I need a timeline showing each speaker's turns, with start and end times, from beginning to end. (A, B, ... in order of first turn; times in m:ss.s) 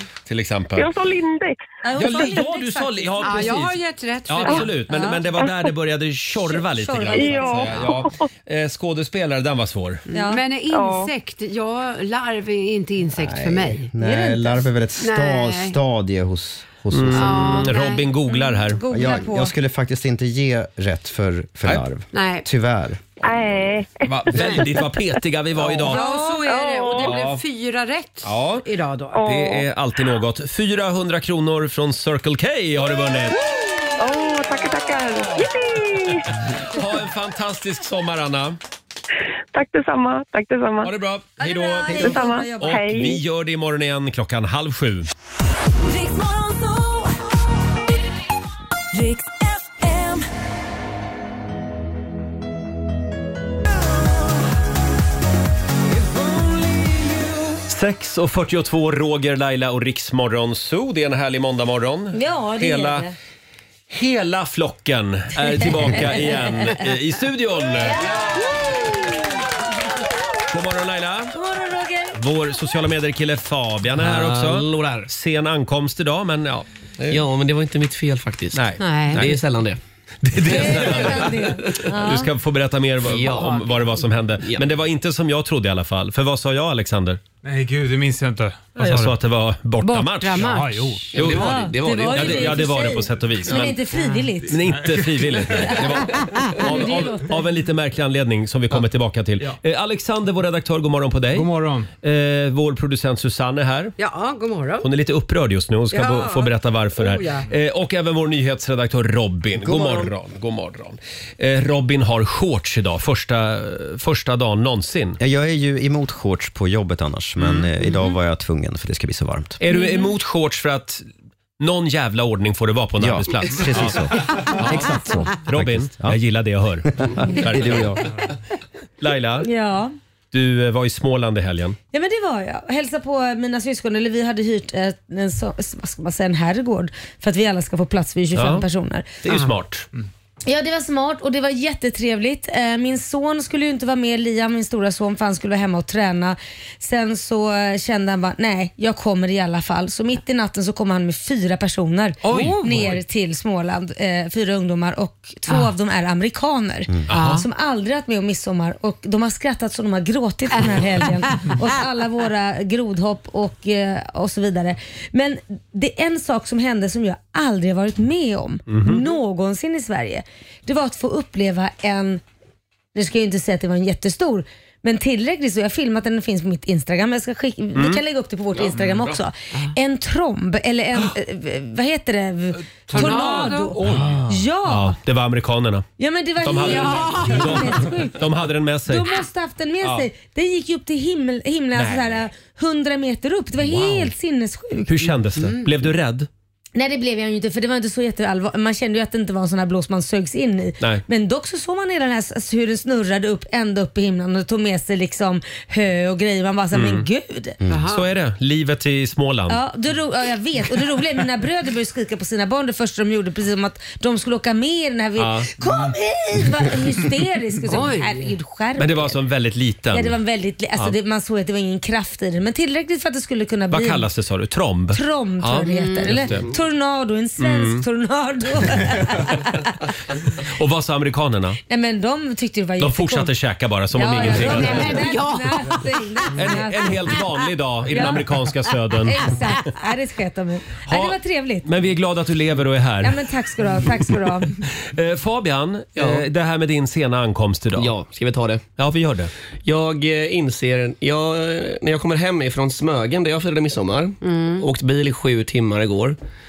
0:00.2-0:00.9 A
0:00.8-0:01.6 B
0:01.8-0:03.6 C
0:02.0-0:10.0 A
0:03.2-0:04.7 D
0:04.9-0:05.2 C
0:06.4-0:07.9 C
0:07.1-0:08.1 B
0:10.1-0:13.9 D
0:10.1-0:10.4 C
0:10.7-0:11.1 B
0:13.2-0:17.8 E
0:14.0-0:14.6 C
0:15.0-0:15.8 D
0:16.9-0:18.8 A
0:17.1-0:18.1 D
0:18.3-0:19.5 C
0:18.9-0:23.4 E
0:22.1-0:22.4 D
0:23.2-0:24.7 B
0:24.1-0:26.0 A
0:25.6-0:29.2 D
0:25.8-0:26.4 C
0:26.4-0:27.2 B
0:27.0-0:27.4 A
0:28.2-0:28.6 A
0:29.1-0:29.6 B
0:29.2-0:33.4 A
0:34.0-0:36.3 B
0:36.7-0:38.6 A
0:39.5-0:40.9 B
0:40.8-0:45.1 A
0:41.4-0:42.8 C
0:41.9-0:43.2 B
0:45.8-0:47.3 F
0:48.9-0:50.2 F
0:56.0-0:57.5 F
0:57.7-1:03.1 A
1:02.1-1:03.1 C
1:03.9-1:09.0 A
1:05.9-1:06.8 C
1:07.8-1:09.3 C
1:10.5-1:11.3 A
1:11.3-1:12.2 C
1:12.2-1:17.2 A
1:14.0-1:15.1 G
1:17.0-1:21.8 G
1:18.5-1:19.3 A
1:18.8-1:19.3 D
1:20.3-1:27.2 A
1:20.4-1:22.3 C
1:23.0-1:24.6 G
1:27.4-1:29.1 H
1:28.8-1:30.6 A
1:29.8-1:31.2 D
1:30.4-1:31.1 H
1:31.1-1:32.7 G
1:31.1-1:33.8 A
1:31.3-1:34.6 C
1:33.9-1:34.3 D
1:34.5-1:41.5 A
1:34.6-1:35.8 H
1:35.6-1:35.9 C
1:36.6-1:37.5 C
1:41.3-1:41.9 H
1:42.0-1:44.0 A
1:44.0-1:44.9 D
1:44.8-1:55.2 A
1:45.9-1:47.5 D
1:49.6-1:50.1 E
1:55.2-1:59.6 E
1:57.4-1:57.7 A
1:59.6-2:01.0 A
1:59.7-2:00.1 C
2:01.6-2:08.0 A
2:03.0-2:06.2 E
2:06.9-2:08.1 E
2:09.0-2:09.5 A
2:09.4-2:09.9 C
2:10.3-2:11.8 A
2:11.9-2:19.1 C
2:18.3-2:18.6 A
2:19.2-2:19.8 A
2:20.4-2:52.2 C
2:32.2-2:32.8 A
2:32.3-2:32.9 D
2:37.1-2:37.4 A
2:37.1-2:37.4 D
2:40.7-2:41.6 D
2:48.7-2:49.0 A
2:52.9-3:05.0 C
2:57.7-2:58.0 A
2:58.7-2:59.1 A
3:02.9-3:04.1 H
3:02.9-3:03.8 D
3:03.9-3:05.9 A
3:06.0-3:08.2 C
3:06.4-3:09.1 A
3:06.6-3:07.8 D
3:08.9-3:15.1 C
3:11.7-3:12.2 A
3:14.9-3:16.3 A
3:15.4-3:15.7 D
3:16.7-3:27.6 C
3:26.7-3:27.0 A
3:27.7-3:28.0 D
3:27.9-3:29.6 A
3:29.5-3:39.2 C
3:35.2-3:35.5 A
3:37.6-3:38.3 D
3:38.8-3:40.2 A
3:39.9-3:44.1 C
3:43.7-3:46.5 A
3:44.9-3:49.8 C
3:45.6-3:46.3 D
3:47.4-3:47.8 A
3:50.4-3:51.6 A
3:51.7-3:53.3 C
3:52.8-3:55.1 A
3:53.9-3:57.2 C
3:54.1-3:56.3 D
3:56.3-3:59.3 A
3:57.9-3:58.2 C
3:59.0-4:01.7 C
4:00.9-4:03.2 A
4:03.0-4:04.6 C
4:04.6-4:07.9 A
4:06.0-4:06.2 G
4:07.8-4:08.6 G
4:08.8-4:09.3 A
4:09.6-4:16.2 G
4:14.2-4:14.6 D